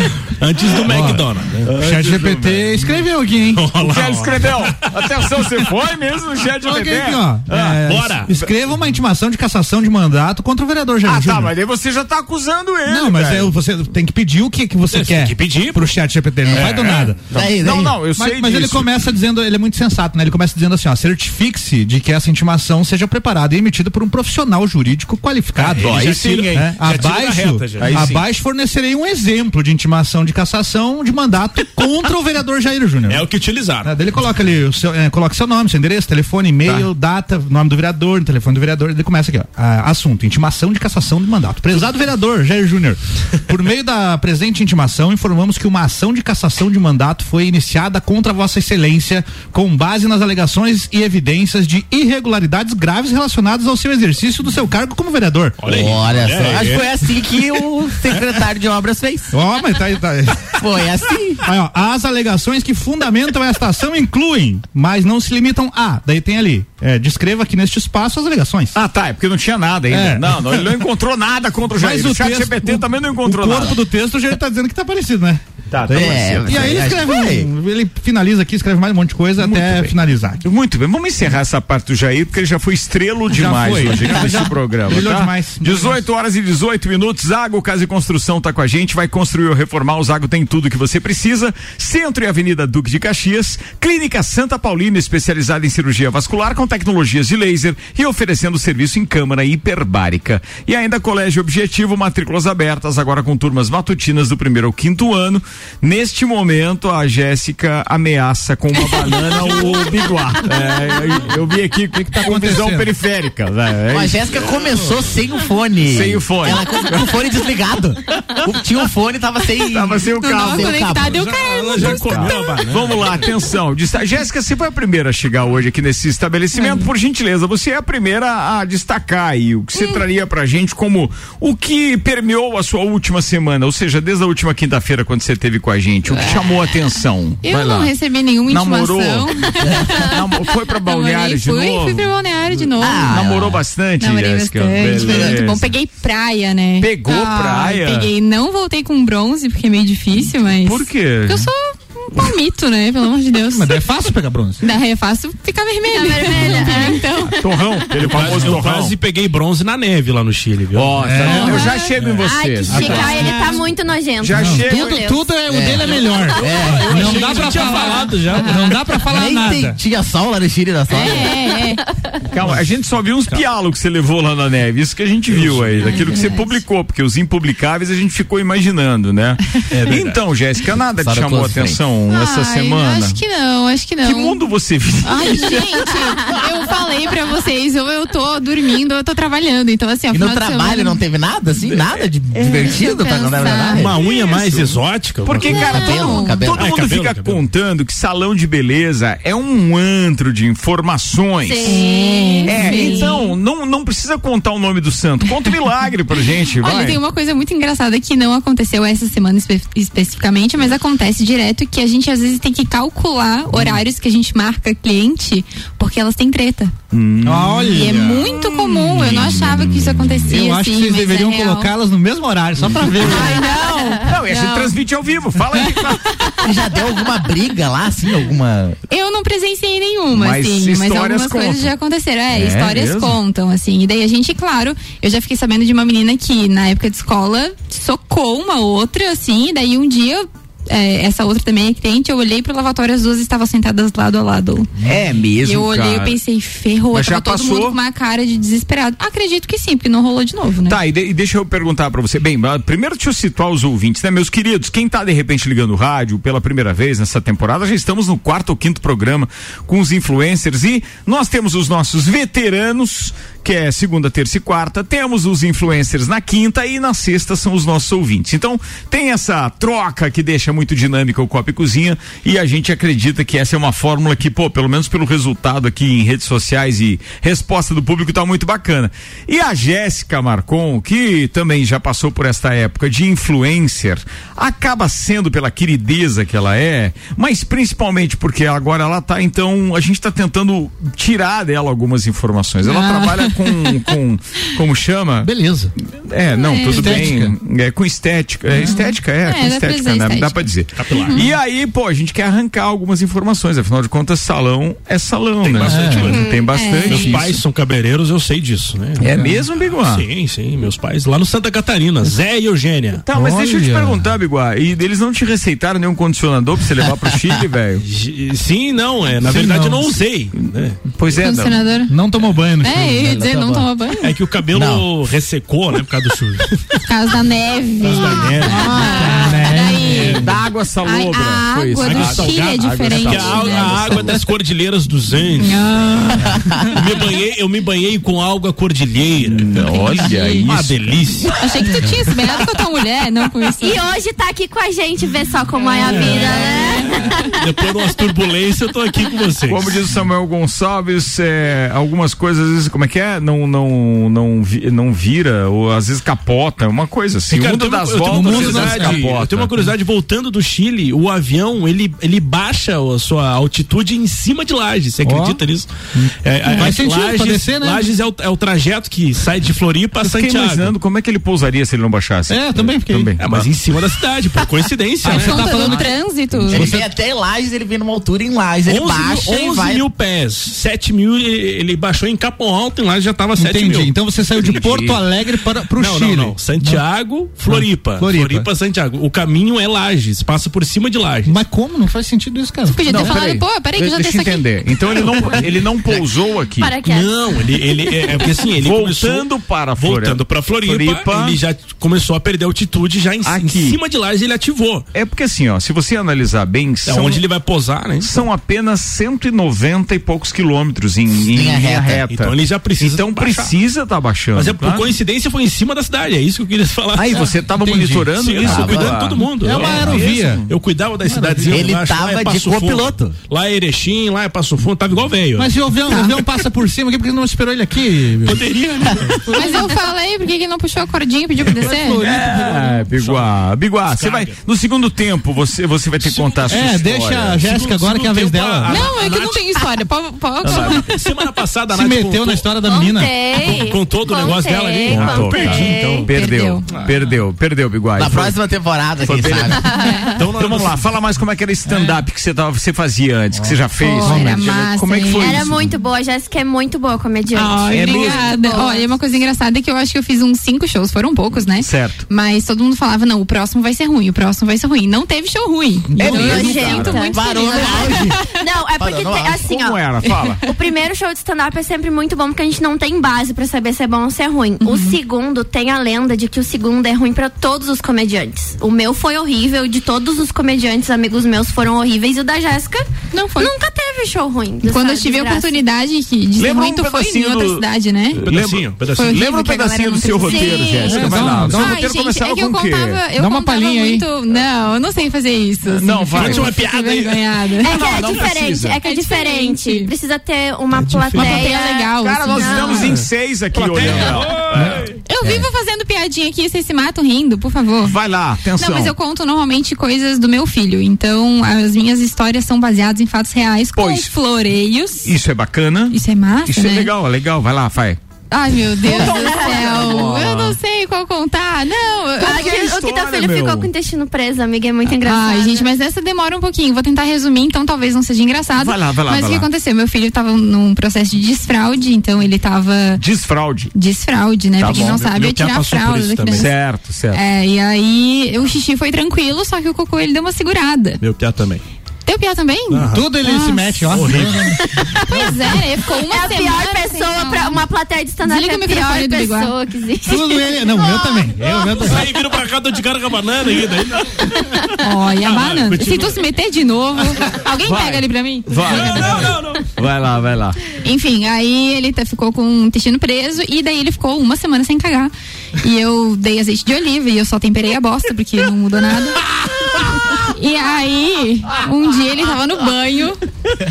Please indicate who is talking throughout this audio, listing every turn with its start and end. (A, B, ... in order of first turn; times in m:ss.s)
0:00.3-0:01.7 A
0:00.8-0:03.6 B
0:01.7-0:02.8 C
0:03.5-0:05.4 A
0:03.8-0:07.7 C
0:06.6-0:11.5 B
0:07.5-0:08.3 A
0:11.0-0:13.5 C
0:12.9-0:17.2 B
0:14.9-0:15.9 A
0:16.4-0:18.0 D
0:17.3-0:19.1 C
0:18.1-0:26.0 B
0:25.6-0:28.1 A
0:25.8-0:26.6 C
0:26.5-0:33.2 B
0:27.8-0:28.2 C
0:33.1-0:33.9 A
0:33.8-0:55.6 B
0:55.6-0:56.9 A
0:55.6-0:59.3 D
0:59.3-1:00.6 B
1:00.6-1:01.4 D
1:01.4-1:08.8 B
1:08.7-1:13.8 C
1:09.9-1:10.6 B
1:11.7-1:20.4 B
1:15.7-1:16.8 C
1:15.9-1:17.5 D
1:19.4-1:54.5 C
1:23.3-1:26.0 B
1:52.1-1:52.9 B
1:53.9-2:01.2 D
1:55.9-1:56.7 C
1:59.7-2:00.9 C
2:00.2-2:02.6 E
2:01.0-2:03.3 A
2:01.8-2:17.9 C
2:06.5-2:06.9 E
2:09.8-2:10.0 E
2:16.1-2:16.8 E
2:17.4-2:23.2 E
2:18.5-2:22.1 C
2:22.8-2:23.6 D
2:23.0-2:25.7 C
2:24.0-2:33.8 E
2:25.1-2:25.3 D
2:26.8-2:28.1 C
2:30.6-2:31.5 C
2:33.5-2:34.6 B
2:34.6-2:37.4 E
2:35.9-2:37.3 F
2:37.2-2:39.0 C
2:38.0-2:42.2 A
2:40.7-2:43.4 C
2:41.0-2:41.6 B
2:41.4-2:41.8 E
2:42.2-2:45.3 F
2:42.7-2:43.5 B
2:44.2-2:45.1 C
2:44.3-2:49.8 B
2:45.5-2:47.2 D
2:45.8-2:48.8 A
2:49.1-2:51.4 D
2:50.9-2:51.8 E
2:52.3-3:03.2 C
2:55.3-2:56.2 A
2:55.8-2:56.6 E
2:59.7-3:00.2 A
3:01.0-3:01.8 D
3:02.1-3:04.4 E
3:04.0-3:05.9 C
3:05.0-3:11.0 E
3:10.1-3:14.0 D
3:12.4-3:14.0 E
3:13.7-3:15.8 A
3:14.3-3:21.8 C
3:15.5-3:16.5 E
3:15.5-3:16.7 D
3:16.5-3:17.4 A
3:21.4-3:23.2 F
3:21.6-3:23.3 E
3:22.4-3:27.0 C
3:26.6-3:36.7 E
3:33.5-3:33.8 C
3:36.9-3:37.9 C
3:37.2-3:38.4 B
3:37.7-3:41.7 E
3:38.8-3:40.1 C
3:40.3-3:43.4 B
3:43.1-3:44.8 E
3:43.1-3:44.0 F
3:44.0-3:46.3 C
3:45.6-3:46.4 E
3:46.4-3:48.8 D
3:48.9-4:04.7 E
3:50.1-3:51.7 C
3:52.3-3:53.2 C
4:04.8-4:06.2 C
4:05.4-4:10.8 E
4:06.9-4:07.8 C
4:10.7-4:55.3 C
4:52.6-4:53.8 E
4:55.2-4:55.7 B
4:56.0-5:07.4 C
4:56.3-4:57.1 E
4:56.7-4:57.3 B
4:58.5-5:01.3 E
5:00.8-5:01.2 A
5:05.4-5:06.3 A
5:05.6-5:06.1 B
5:06.0-5:06.5 F
5:06.5-5:07.2 E
5:06.9-5:09.1 A
5:09.0-5:10.0 C
5:09.0-5:09.4 B
5:09.6-5:13.0 A
5:13.0-5:17.8 C
5:13.1-5:14.1 B
5:17.8-5:20.8 A
5:19.2-5:20.0 B
5:20.4-5:21.6 C
5:21.2-5:21.9 E
5:21.9-5:23.6 B
5:22.6-5:24.1 E
5:23.2-5:23.5 D
5:24.0-5:26.8 A
5:24.5-5:24.8 D
5:26.9-5:30.3 E
5:27.8-5:30.2 A
5:28.4-5:30.2 B
5:30.1-5:34.2 C
5:30.8-5:34.2 E
5:31.8-5:35.7 A
5:35.4-5:36.6 E
5:36.6-5:39.6 A
5:39.2-5:40.9 C
5:39.6-5:40.5 E
5:40.4-5:41.5 A
5:41.4-5:43.8 E
5:43.6-5:47.4 F
5:45.6-5:47.1 E
5:45.8-5:46.5 A
5:47.4-5:49.8 A
5:49.5-5:59.6 C
5:57.3-6:05.7 A
5:58.0-5:59.0 B
6:05.0-6:05.4 B
6:05.9-6:07.9 B
6:06.2-6:10.7 A
6:10.0-6:13.5 C
6:12.3-6:13.1 B
6:13.2-6:15.9 A
6:15.0-6:16.8 B
6:15.1-6:16.7 E
6:16.5-6:19.8 D
6:18.7-6:24.6 A
6:23.4-6:26.8 B
6:24.4-6:25.0 C
6:25.7-6:31.3 A
6:27.4-6:28.5 B
6:31.2-6:33.2 B
6:32.7-6:34.4 E
6:32.9-6:36.7 C
6:36.6-6:37.2 F
6:36.8-6:39.3 A
6:38.5-6:41.4 C
6:39.8-6:44.8 A
6:43.2-6:43.8 C
6:44.9-6:47.2 C
6:46.8-6:48.2 A
6:48.0-6:54.9 C
6:51.2-6:52.0 D
6:52.1-6:53.5 A
6:54.3-6:57.4 A
6:56.9-7:00.5 C
6:57.6-6:58.1 B
6:58.2-7:06.1 A
6:58.4-6:59.1 D
6:59.4-7:00.4 B
7:01.0-7:01.7 B
7:01.5-7:03.2 D
7:05.4-7:09.6 B
7:08.2-7:09.6 A
7:09.3-7:12.0 E
7:11.5-7:12.8 B
7:12.0-7:17.4 C
7:12.1-7:13.3 A
7:13.9-7:14.4 A
7:16.0-7:16.8 A
7:16.5-7:18.8 B
7:17.3-7:19.6 A
7:18.7-7:21.0 E
7:20.4-7:20.8 C
7:20.5-7:22.5 A
7:21.7-7:23.1 B
7:22.6-7:26.1 F
7:23.3-7:26.0 A
7:24.9-7:28.4 C
7:26.0-7:26.7 E
7:26.7-7:27.0 A
7:28.0-7:29.6 D
7:29.0-7:35.7 C
7:29.6-7:30.1 F
7:29.8-7:30.1 E
7:30.2-7:30.9 A
7:31.7-7:32.0 B
7:33.3-7:34.5 B
7:33.8-7:35.5 E
7:35.1-7:38.9 F
7:37.3-7:48.0 E
7:37.7-7:38.3 C
7:41.6-7:42.0 C
7:46.0-7:47.1 C
7:46.0-7:49.9 F
7:47.1-7:48.2 D
7:48.8-7:49.5 D
7:49.4-7:50.4 C
7:50.4-8:05.6 F
7:54.6-7:55.0 E
8:03.1-8:03.5 E
8:04.6-8:08.2 E
8:06.4-8:13.0 C
8:08.2-8:09.2 A
8:08.9-8:18.1 E
8:10.2-8:11.0 F
8:10.8-8:11.8 B
8:13.2-8:14.0 B
8:15.6-8:16.5 C
8:16.1-8:17.5 A
8:17.6-8:22.8 F
8:17.6-8:18.8 C
8:18.8-8:19.9 E
8:20.7-8:21.4 A
8:21.1-8:22.9 E
8:22.0-8:25.4 C
8:23.5-8:25.0 A
8:25.0-8:28.0 E
8:27.8-8:28.9 C
8:28.6-8:35.1 E
8:33.8-8:34.1 C
8:35.0-8:38.0 C
8:35.9-8:36.9 E
8:38.3-8:42.5 E
8:38.8-8:40.0 F
8:38.8-8:40.6 C
8:42.2-8:45.7 F
8:42.2-8:43.7 C
8:45.0-8:53.0 E
8:48.6-8:49.5 C
8:53.0-8:53.7 C
8:53.7-8:56.5 E
8:54.6-8:55.0 C
8:54.6-8:56.5 A
8:56.3-8:57.2 C
8:57.1-9:01.0 E
9:01.0-9:01.6 A
9:02.0-9:03.9 E
9:02.7-9:03.0 A
9:02.9-9:05.3 B
9:03.9-9:04.6 A
9:05.0-9:07.6 E
9:05.9-9:11.5 F
9:08.2-9:09.5 E
9:10.0-9:12.0 B
9:11.7-9:16.2 A
9:14.8-9:19.3 E
9:17.6-9:20.6 C
9:18.6-9:19.7 A
9:20.8-9:29.2 E
9:29.8-9:33.2 E